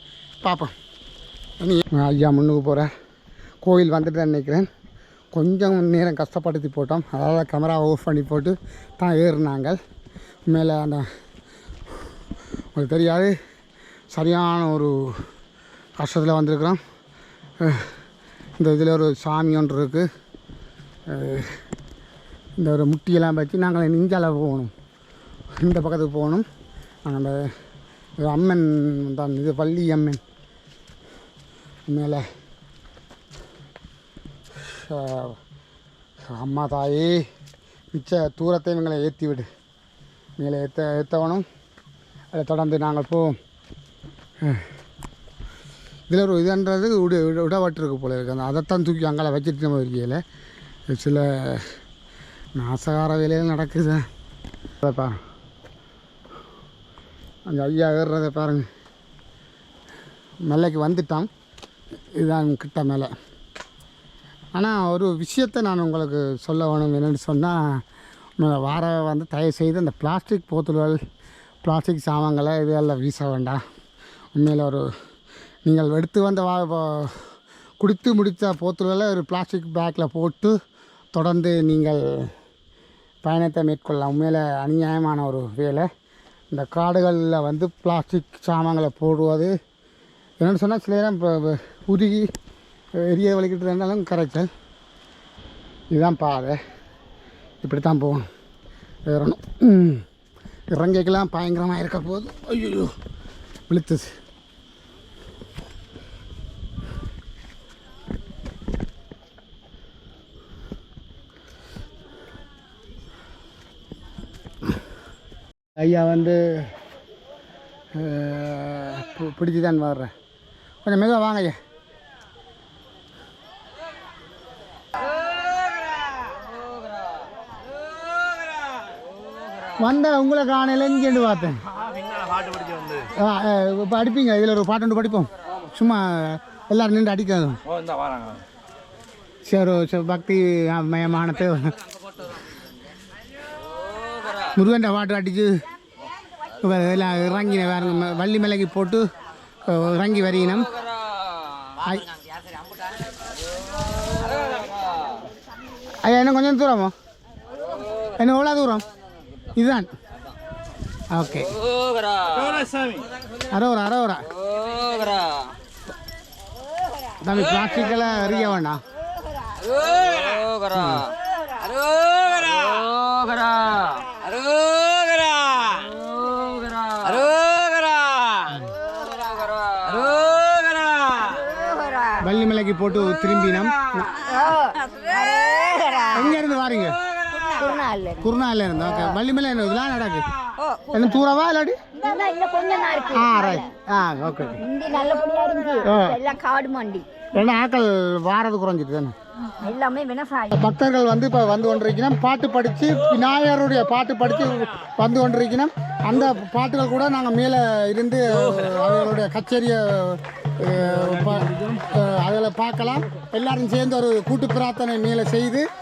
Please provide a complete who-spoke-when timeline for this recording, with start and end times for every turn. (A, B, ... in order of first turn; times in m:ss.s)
0:00.4-0:00.7 A
0:01.6-0:02.9 A
0:03.6-0:04.7 A
0:05.3-0:09.8 A
0:10.5-0:11.1 A
0:12.7-0:13.3 A
0:14.1-0:15.2 A
0:16.0-0:16.8 A
0:17.6-0:17.9 A
0:18.6-0:20.1 A
0:21.1-0:21.6 A
0:22.6-0:24.7 A
0:25.6-0:26.4 A
0:27.0-0:27.5 A
0:28.2-0:30.2 A
0:31.9-0:32.2 A
0:34.6-0:35.4 A
0:36.3-0:37.3 A
0:37.9-0:39.5 A
0:40.4-0:41.4 A
0:42.3-0:43.4 A
0:44.4-0:44.7 A
0:46.1-0:50.2 A
0:50.9-0:51.8 A
0:52.6-0:54.0 A
0:54.8-0:55.2 A
0:57.5-0:58.6 A
1:00.4-1:01.3 A
1:02.2-1:03.1 A
1:04.5-1:07.8 A
1:08.4-1:11.0 A
1:11.6-1:13.6 A
1:14.4-1:14.9 A
1:15.6-1:17.3 A
1:17.8-1:20.6 A
1:21.1-1:22.3 A
1:23.2-1:25.9 A
1:26.5-1:29.5 A
1:30.4-1:32.3 A
1:33.0-1:34.5 A
1:35.9-1:36.6 A
1:37.6-1:38.3 A
1:39.0-1:40.0 A
1:40.7-1:42.9 A
1:43.7-1:44.1 A
1:55.8-1:56.7 A
1:57.9-2:00.1 A
2:00.8-2:01.6 A
2:09.8-2:11.6 A
2:12.2-2:13.0 B
2:13.1-2:17.6 A
2:17.7-2:18.4 B
2:19.4-2:21.7 A
2:24.5-2:25.6 A
2:26.6-2:29.1 A
2:29.6-2:30.7 A
2:31.8-2:32.1 A
2:36.0-2:36.9 A
2:38.2-2:38.8 A
2:39.6-2:39.9 A
2:41.1-2:41.6 A
2:41.9-2:42.2 B
2:43.5-2:44.3 A
2:44.7-2:45.5 B
2:47.2-2:48.8 A
2:50.0-2:50.7 B
2:50.7-2:51.1 A
2:51.9-2:54.1 B
2:54.6-2:55.4 B
3:01.1-3:02.2 C
3:02.2-3:04.1 A
3:04.2-3:06.4 C
3:06.1-3:07.0 A
3:07.4-3:08.3 C
3:08.2-3:10.3 A
3:10.6-3:10.9 C
3:10.9-3:11.8 A
3:11.9-3:13.7 C
3:13.1-3:14.6 A
3:14.6-3:17.0 C
3:15.8-3:16.2 A
3:17.3-3:19.1 A
3:19.6-3:20.7 C
3:20.5-3:35.7 A
3:30.9-3:31.8 B